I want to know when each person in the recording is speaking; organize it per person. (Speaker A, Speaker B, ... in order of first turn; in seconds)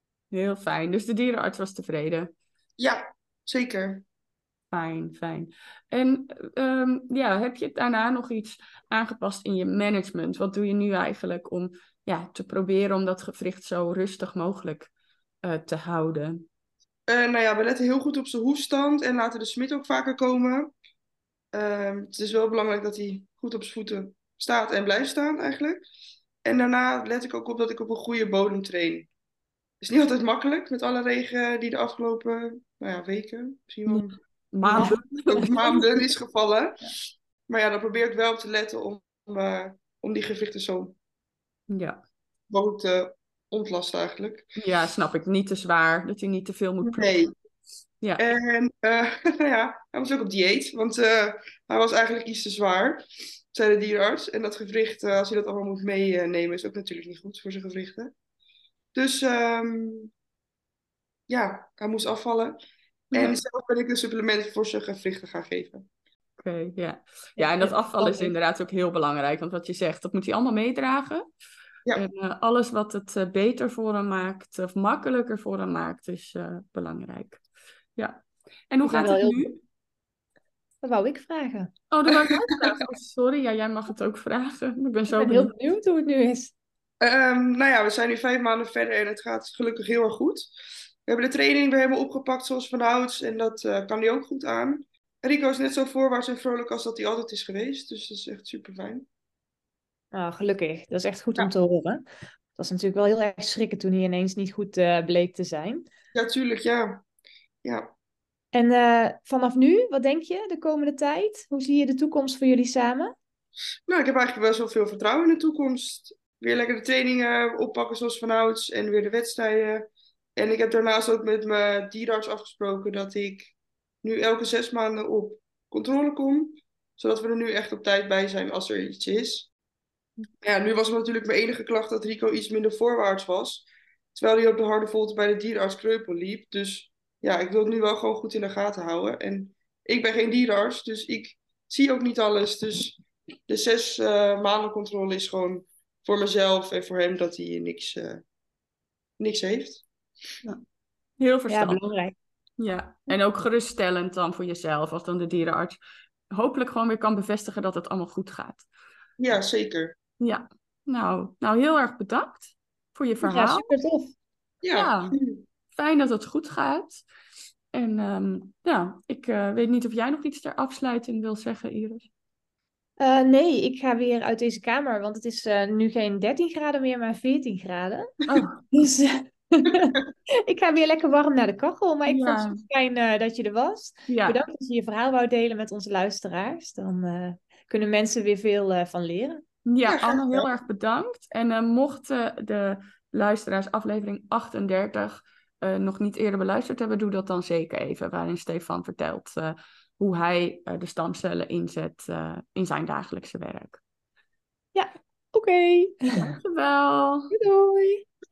Speaker A: 0.3-2.3, 4.7-14.9, 15.4-16.5, 34.5-35.5, 41.7-42.0, 44.5-47.1, 63.1-63.4, 66.4-71.2, 71.9-77.4, 78.0-79.6, 81.9-85.7, 151.2-151.8, 152.6-155.8, 156.3-158.7, 160.2-163.7, 164.7-165.1, 165.7-167.1, 167.7-172.1, 178.3-178.6, 182.1-182.6, 184.1-184.4, 189.7-203.8, 206.4-207.3
Speaker B: 2.8-4.0, 17.1-20.7, 21.5-25.8, 26.4-29.1, 29.8-34.1, 34.7-36.8, 37.5-41.0, 42.5-44.5, 46.8-47.3, 48.2-58.1, 58.9-60.1, 61.3-62.6, 63.1-65.9, 67.4-68.3, 87.0-90.5, 91.0-99.1, 106.1-107.0, 107.6-107.9, 113.9-129.5, 130.4-148.2, 149.2-149.8, 159.2-159.9, 164.6-165.4, 189.8-190.5
Speaker C: 34.6-35.8, 78.8-79.4, 80.8-81.7, 85.1-86.5, 100.1-105.8, 108.5-113.1, 151.5-152.2, 163.2-164.1, 173.0-178.1, 178.7-189.4, 204.7-206.4, 207.3-208.0